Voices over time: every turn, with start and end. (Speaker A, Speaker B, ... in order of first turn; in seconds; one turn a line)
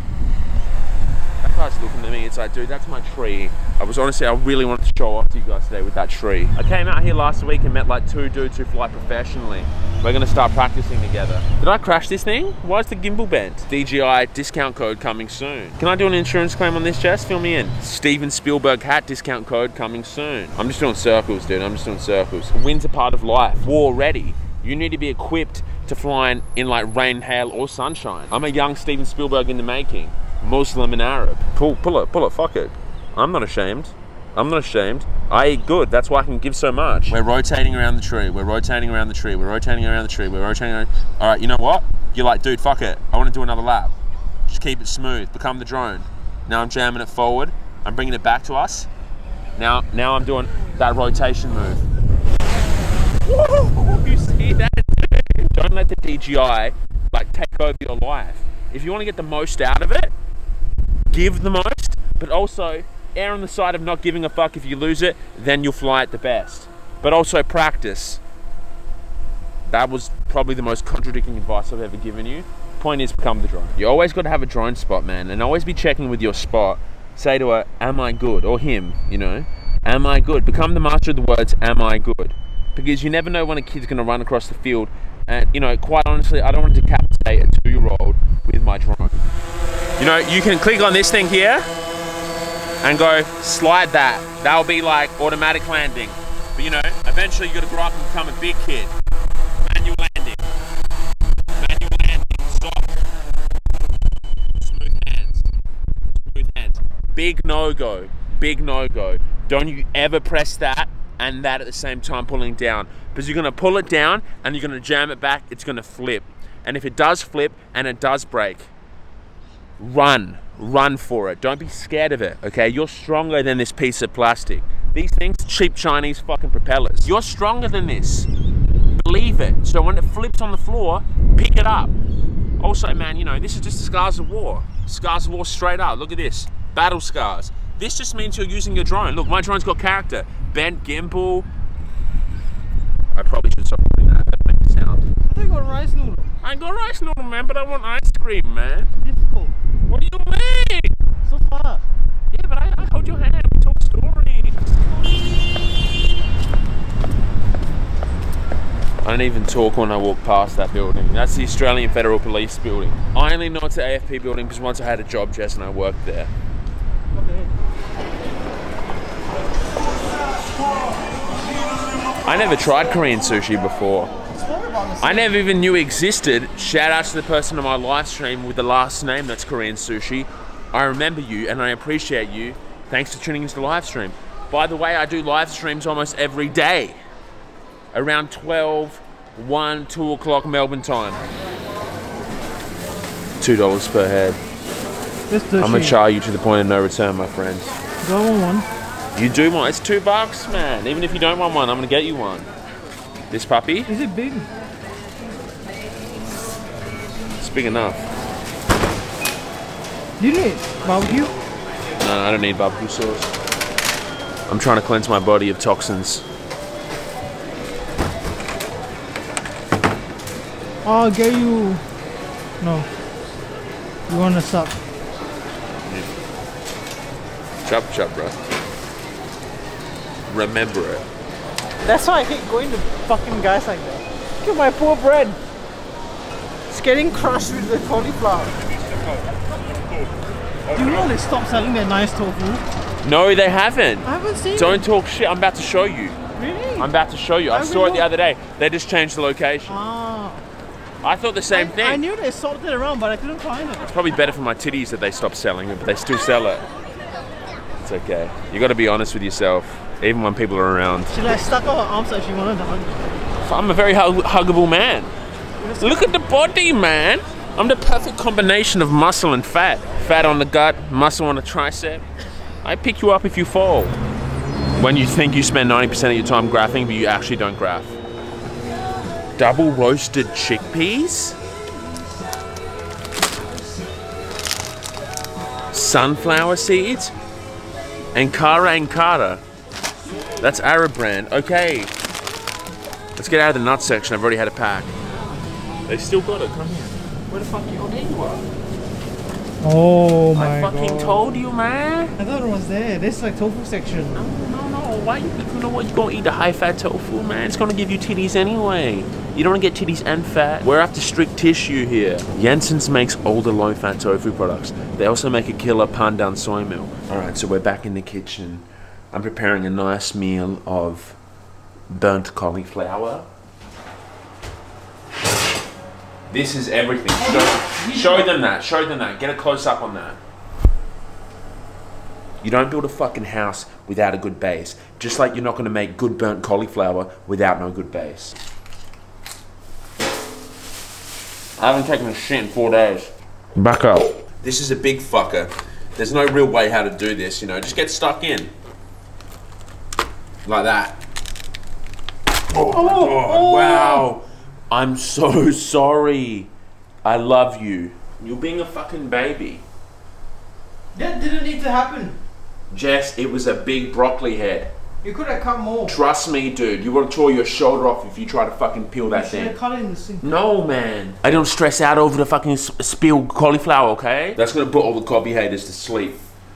Speaker A: 1.4-43.9
Speaker A: 44.5-48.9
Speaker A: 49.5-51.8
Speaker A: 53.2-60.1
Speaker A: 61.1-68.2
Speaker A: 69.7-89.2
Speaker A: 90.0-91.7
Speaker A: 92.8-98.9
Speaker A: 99.6-100.4
Speaker A: 101.5-103.0
Speaker A: 104.5-105.5
Speaker A: 106.2-118.7
Speaker A: 119.8-128.3
Speaker A: 128.9-131.9
Speaker A: 132.6-141.5
Speaker A: 143.1-145.1
Speaker B: 145.3-146.3
Speaker A: 146.4-148.9
Speaker B: 149.0-149.6
Speaker A: 149.9-150.9
Speaker B: 151.2-151.8
Speaker A: 152.3-154.7
Speaker A: 159.0-166.3
Speaker B: 167.1-167.5
Speaker A: 172.2-174.1
Speaker B: 174.3-175.3
Speaker A: 175.0-187.0
Speaker A: 187.9-191.2
Speaker A: 193.4-194.4
Speaker B: 195.3-196.0
Speaker A: 195.6-197.8
Speaker B: 198.0-198.7
Speaker A: 199.2-202.5
Speaker A: 203.3-203.9
Speaker B: 203.9-204.5
Speaker A: 207.4-208.1
Speaker B: 210.2-211.3
Speaker A: 212.0-213.3
Speaker A: 214.5-216.2
Speaker B: 220.8-221.8
Speaker B: 222.6-222.9
Speaker B: 224.1-224.8
Speaker A: 225.9-226.1
Speaker A: 227.6-228.4
Speaker A: 230.3-231.1
Speaker B: 231.8-235.4
Speaker B: 236.7-238.6
Speaker B: 240.7-242.6
Speaker A: 243.0-246.2
Speaker B: 244.0-244.9
Speaker B: 246.3-246.9
Speaker A: 246.8-249.8
Speaker B: 247.5-248.1
Speaker B: 249.7-250.4
Speaker A: 251.0-252.0
Speaker B: 251.5-253.9
Speaker A: 253.8-256.6
Speaker A: 257.8-261.1
Speaker B: 261.1-263.1
Speaker A: 263.4-265.1
Speaker B: 265.6-266.1
Speaker A: 265.8-272.0
Speaker A: 272.6-274.0
Speaker A: 274.8-278.0
Speaker A: 279.4-281.4
Speaker A: 285.7-287.1
Speaker A: 288.1-289.4
Speaker A: 290.4-291.9
Speaker A: 293.2-294.9
Speaker A: 295.9-298.4
Speaker B: 299.6-301.4
Speaker A: 300.3-302.1
Speaker B: 302.2-304.2
Speaker A: 304.1-321.2
Speaker A: 321.9-323.3
Speaker A: 326.3-330.2
Speaker B: 327.2-328.4
Speaker A: 332.4-338.4
Speaker A: 341.6-348.5
Speaker A: 350.4-351.0
Speaker A: 352.5-356.5
Speaker B: 352.5-354.1
Speaker A: 357.0-359.6
Speaker B: 360.9-362.2
Speaker A: 362.7-364.7
Speaker B: 365.0-366.0
Speaker A: 365.9-369.5
Speaker B: 369.1-370.2
Speaker A: 370.2-376.2